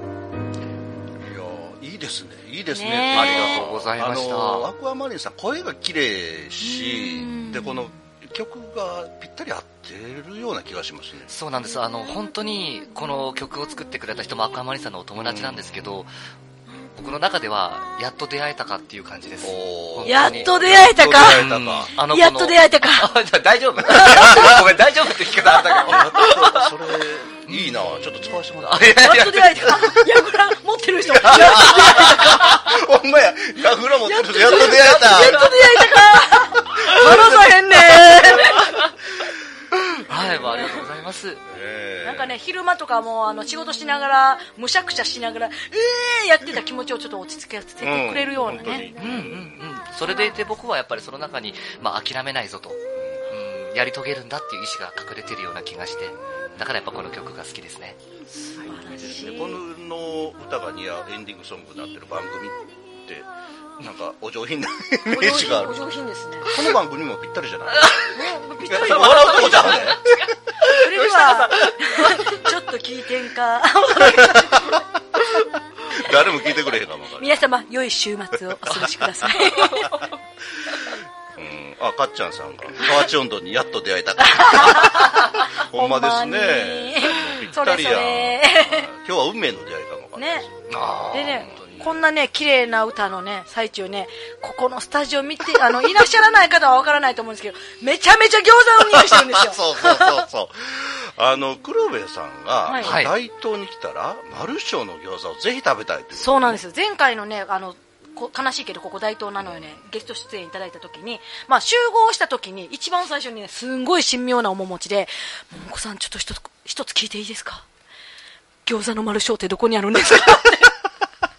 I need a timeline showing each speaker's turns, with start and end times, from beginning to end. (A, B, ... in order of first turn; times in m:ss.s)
0:01.2-0:11.3 A
0:02.7-0:03.6 B
0:03.1-0:04.7 C
0:06.6-0:08.0 B
0:11.3-0:16.1 C
0:15.2-0:15.8 A
0:17.0-0:26.7 C
0:19.4-0:21.9 A
0:20.0-0:21.4 B
0:22.0-0:23.1 B
0:23.9-0:24.5 B
0:24.0-0:24.6 A
0:25.8-0:29.1 A
0:27.5-0:28.1 C
0:28.7-0:29.7 C
0:29.0-0:32.6 B
0:31.1-0:35.5 A
0:31.3-0:31.9 C
0:34.1-0:38.7 B
0:34.6-0:35.5 C
0:38.4-0:38.9 C
0:40.0-0:41.4 C
0:40.5-0:40.8 B
0:41.5-0:42.3 A
0:42.0-0:48.9 B
0:47.8-0:49.6 A
0:49.0-0:58.0 C
0:53.0-0:53.3 A
0:58.4-0:59.6 B
0:58.7-1:03.3 A
1:03.8-1:05.8 A
1:05.1-1:06.6 B
1:06.4-1:10.1 A
1:07.8-1:08.1 C
1:08.1-1:10.0 B
1:08.8-1:12.2 C
1:10.7-1:14.9 B
1:14.0-1:14.8 A
1:15.4-1:17.4 A
1:17.2-1:20.0 B
1:18.6-1:19.1 A
1:21.4-1:30.5 A
1:24.2-1:28.9 B
1:30.2-1:30.5 B
1:30.7-1:31.9 C
1:31.1-1:40.2 B
1:31.2-1:31.9 A
1:38.8-1:46.6 A
1:42.7-1:43.0 B
1:42.8-1:43.2 C
1:46.1-1:57.7 B
1:58.7-2:00.7 B